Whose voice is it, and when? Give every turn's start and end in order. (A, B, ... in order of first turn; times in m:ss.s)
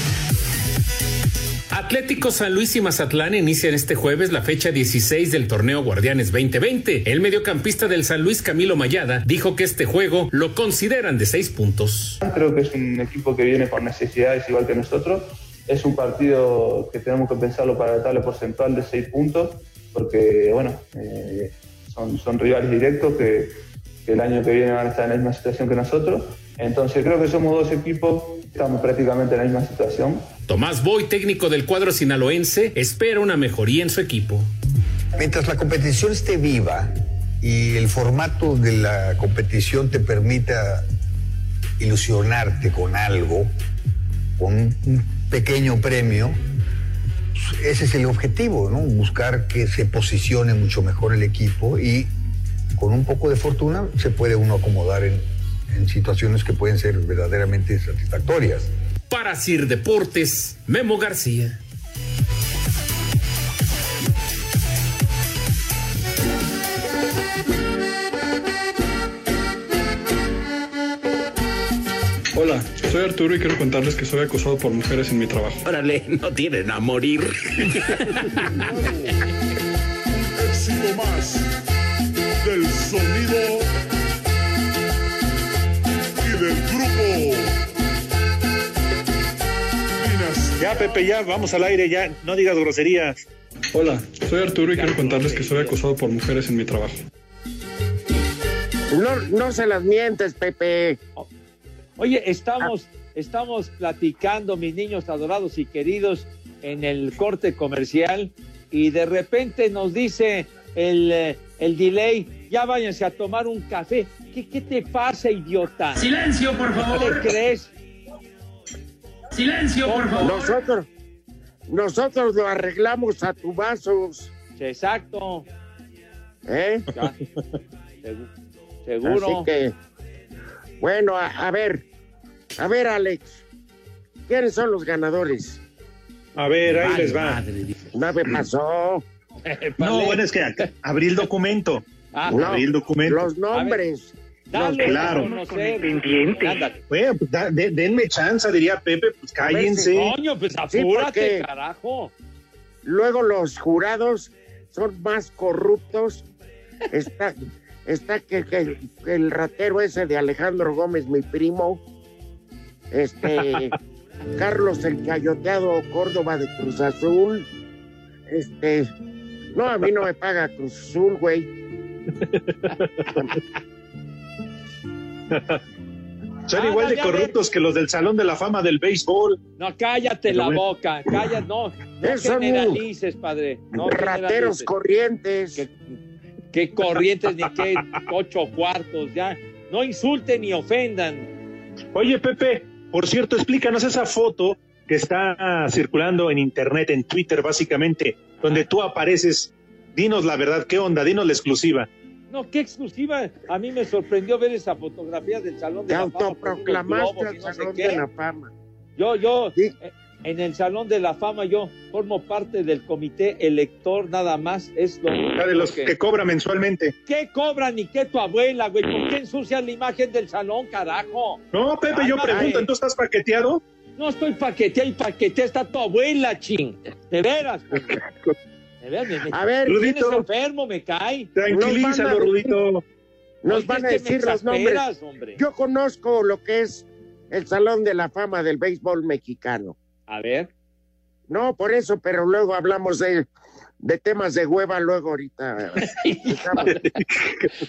0:01.7-0:12.2 A
0:12.2-0:30.3 B
0:30.5-0:34.5 A
0:35.2-0:40.8 C
0:41.8-0:43.5 C
0:44.4-0:46.4 C
0:47.3-0:52.1 C
0:52.7-0:58.7 C
0:59.1-1:01.6 A
1:12.3-1:15.6 D
1:15.6-1:17.6 E
1:18.6-1:19.1 F
1:20.1-1:21.5 F
1:22.4-1:23.7 F
1:26.2-1:27.5 F
1:30.0-1:31.0 F
1:30.6-1:33.2 G
1:33.7-1:37.0 D
1:34.4-1:35.8 H
1:38.9-1:41.0 I
1:42.0-1:56.0 H
1:56.0-1:57.3 J
1:56.9-1:57.7 H
1:59.3-2:00.6 J
1:59.8-2:00.4 H
2:00.2-2:00.9 I
2:01.7-2:04.3 I
2:04.6-2:05.4 H
2:06.5-2:06.8 I
2:08.0-2:08.3 H
2:08.8-2:09.5 H
2:09.0-2:09.7 I
2:10.8-2:11.8 I
2:12.6-2:13.4 I
2:14.3-2:15.6 I
2:16.4-2:17.4 G
2:16.6-2:17.8 J
2:17.9-2:19.0 I
2:19.4-2:20.2 H
2:19.8-2:23.3 G
2:22.1-2:22.6 H
2:22.3-2:25.2 I
2:23.5-2:23.8 H
2:24.5-2:26.8 H
2:24.8-2:25.3 G
2:26.9-2:30.1 G
2:29.4-2:29.9 I
2:29.9-2:32.1 H
2:30.7-2:31.4 I
2:32.8-2:36.2 I
2:36.9-2:41.8 I
2:42.9-2:43.7 I
2:44.4-2:47.5 I
2:48.3-2:48.9 I
2:49.5-2:51.5 I
2:52.8-2:53.1 G
2:55.3-2:55.6 G
2:56.5-2:59.4 G
2:56.5-2:57.4 H
2:59.6-3:04.7 H
3:00.3-3:00.6 G
3:02.0-3:02.8 I
3:03.8-3:05.6 I
3:06.5-3:11.3 H
3:11.9-3:21.9 G
3:22.3-3:28.0 H
3:25.9-3:28.5 I
3:29.0-3:35.9 H
3:35.4-3:36.9 G
3:37.1-3:42.7 H
3:41.5-3:43.6 G
3:44.0-3:48.0 H
3:48.8-3:51.3 H
3:49.3-3:49.9 I
3:49.7-3:50.2 G
3:51.3-3:52.8 G
3:51.5-3:52.5 I
3:53.4-3:54.8 I
3:53.5-3:55.4 H
3:55.4-3:59.7 I
4:00.1-4:00.5 H
4:01.3-4:03.2 I
4:03.8-4:06.7 I
4:05.8-4:06.7 H